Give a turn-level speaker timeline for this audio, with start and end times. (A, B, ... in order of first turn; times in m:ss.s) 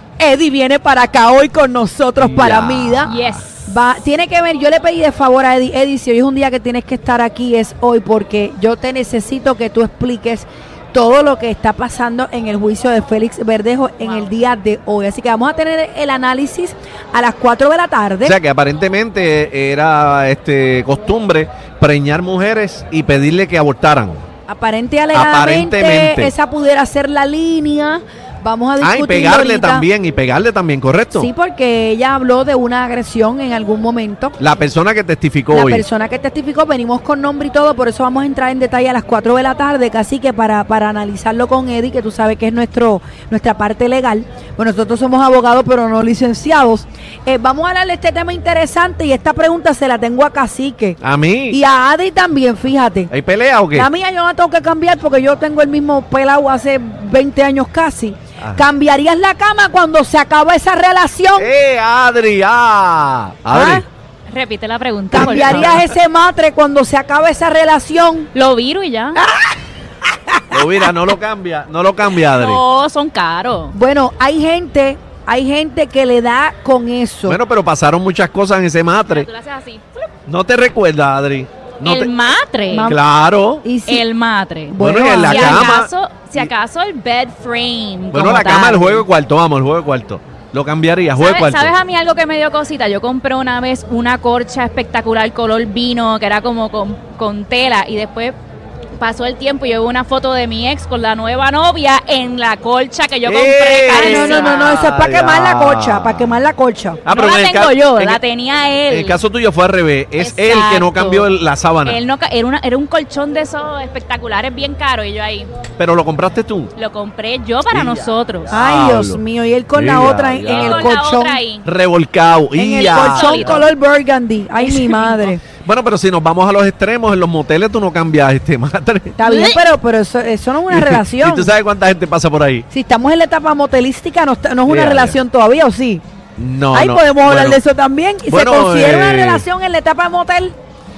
0:00.2-0:03.1 A
0:02.2-0:03.4 B
0:03.0-0:03.7 C
0:03.7-0:18.4 A
0:18.2-0:24.2 B
0:24.5-0:29.8 A
0:25.1-0:26.3 B
0:28.8-0:31.3 B
0:31.1-0:34.4 A
0:34.4-0:35.8 B
0:35.5-0:51.0 A
0:51.0-0:51.6 B
0:51.5-0:53.1 A
0:53.1-0:53.9 B
0:53.7-1:01.5 A
0:58.4-0:58.6 B
1:01.4-1:03.8 B
1:03.5-1:03.8 A
1:04.3-1:05.8 C
1:05.1-1:08.3 A
1:05.2-1:05.7 B
1:08.3-1:09.2 C
1:09.2-1:09.5 A
1:10.3-1:10.9 A
1:10.5-1:12.6 B
1:12.2-1:13.7 C
1:13.7-1:17.4 A
1:17.3-1:19.3 B
1:19.1-1:20.1 C
1:20.3-1:22.1 B
1:21.8-1:22.9 C
1:22.7-1:23.0 A
1:22.8-1:23.6 B
1:23.6-1:24.0 A
1:23.8-1:29.0 C
1:24.7-1:25.8 A
1:24.8-1:26.5 B
1:28.1-1:31.7 B
1:31.1-1:38.4 C
1:39.0-1:44.7 C
1:43.2-1:46.4 B
1:43.9-1:47.0 A
1:47.0-1:48.2 B
1:47.1-1:49.2 C
1:48.9-1:52.0 B
1:50.2-1:51.3 C
1:51.8-1:55.5 C
1:55.8-1:56.7 B
1:56.8-1:58.5 C
1:57.7-1:59.2 B
1:58.5-2:01.4 A
1:59.7-2:00.9 B
2:00.4-2:01.7 C
2:01.6-2:03.6 B
2:02.6-2:05.4 A
2:02.8-2:03.7 C
2:04.6-2:05.3 C
2:05.6-2:09.1 B
2:09.2-2:11.5 A
2:09.2-2:09.6 C
2:10.7-2:12.6 B
2:12.7-2:16.0 A
2:14.6-2:15.2 B
2:16.4-2:17.6 B
2:16.7-2:20.5 A
2:18.3-2:19.4 B